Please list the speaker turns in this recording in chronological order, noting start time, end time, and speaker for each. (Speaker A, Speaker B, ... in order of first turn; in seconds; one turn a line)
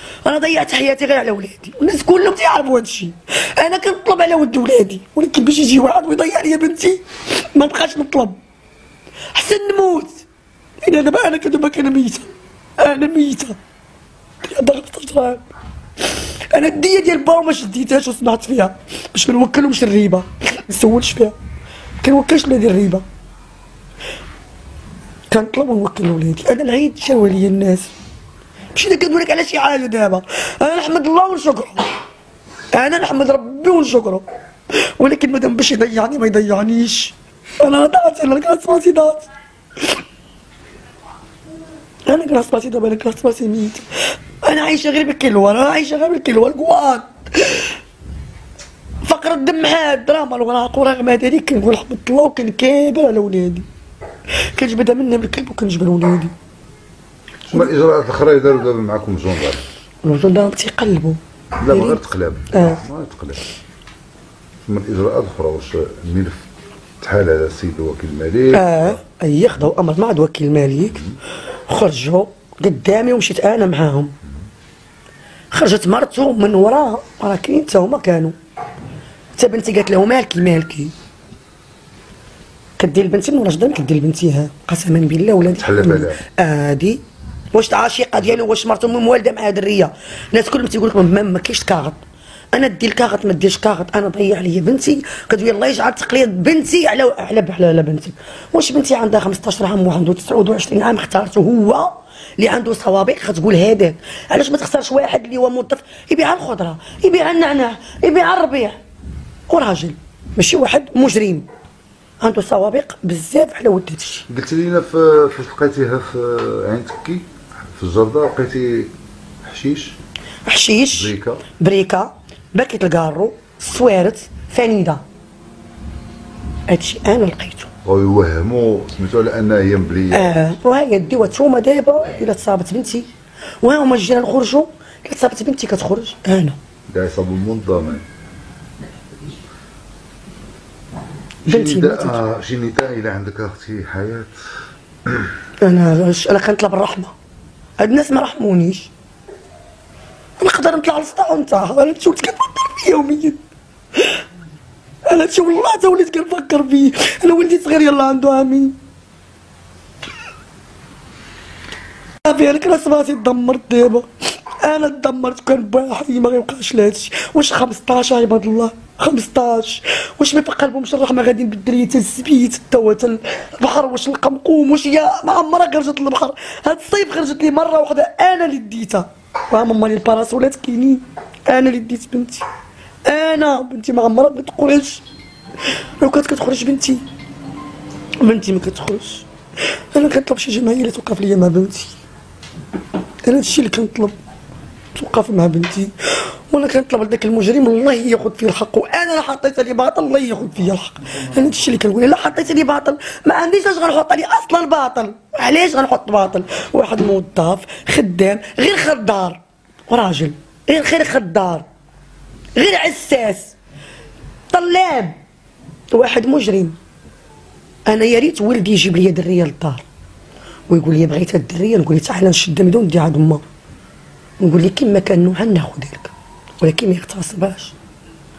Speaker A: 0.2-8.4
Speaker A: 9.3-10.2
Speaker A: 10.8-12.3
Speaker A: 12.8-13.6
Speaker A: 14.4-15.4
Speaker A: 16.5-21.3
Speaker A: 22.0-23.0
Speaker A: 25.3-27.9
Speaker A: 28.7-31.9
Speaker A: 32.7-39.3
Speaker A: 42.1-47.7
Speaker A: 49.0-53.6
Speaker A: 54.5-56.3
Speaker B: 57.5-59.6
Speaker A: 60.0-62.8
Speaker B: 61.6-63.5
Speaker B: 64.7-66.5
Speaker B: 67.0-69.0
Speaker A: 68.5-71.0
Speaker A: 71.7-74.1
Speaker A: 75.5-78.3
Speaker A: 79.3-80.9
Speaker A: 82.8-87.0
Speaker B: 85.6-86.2
Speaker A: 87.5-108.8
Speaker A: 109.5-111.5
Speaker A: 112.2-114.2
Speaker B: 114.3-118.9
Speaker B: 119.4-120.0
Speaker A: 120.4-125.0
Speaker B: 120.9-121.4
Speaker A: 126.7-127.7
Speaker B: 127.8-130.3
Speaker A: 130.1-133.1
Speaker A: 133.6-136.6
Speaker B: 136.9-138.0
Speaker A: 141.4-142.2
Speaker B: 141.4-144.3
Speaker A: 145.6-147.1
Speaker A: 147.8-148.9
Speaker A: 150.4-153.4
Speaker A: 155.1-158.8
Speaker A: 162.2-182.4
Speaker A: 183.1-185.0
Speaker A: 186.0-187.0
Speaker A: 188.2-189.3
Speaker A: 189.9-192.0
Speaker A: 193.2-194.2
Speaker A: 194.9-211.7
Speaker A: 212.6-213.6
Speaker A: 214.5-215.2
Speaker A: 215.9-216.8
Speaker A: 217.9-219.8
Speaker A: 220.7-223.4
Speaker A: 224.4-227.7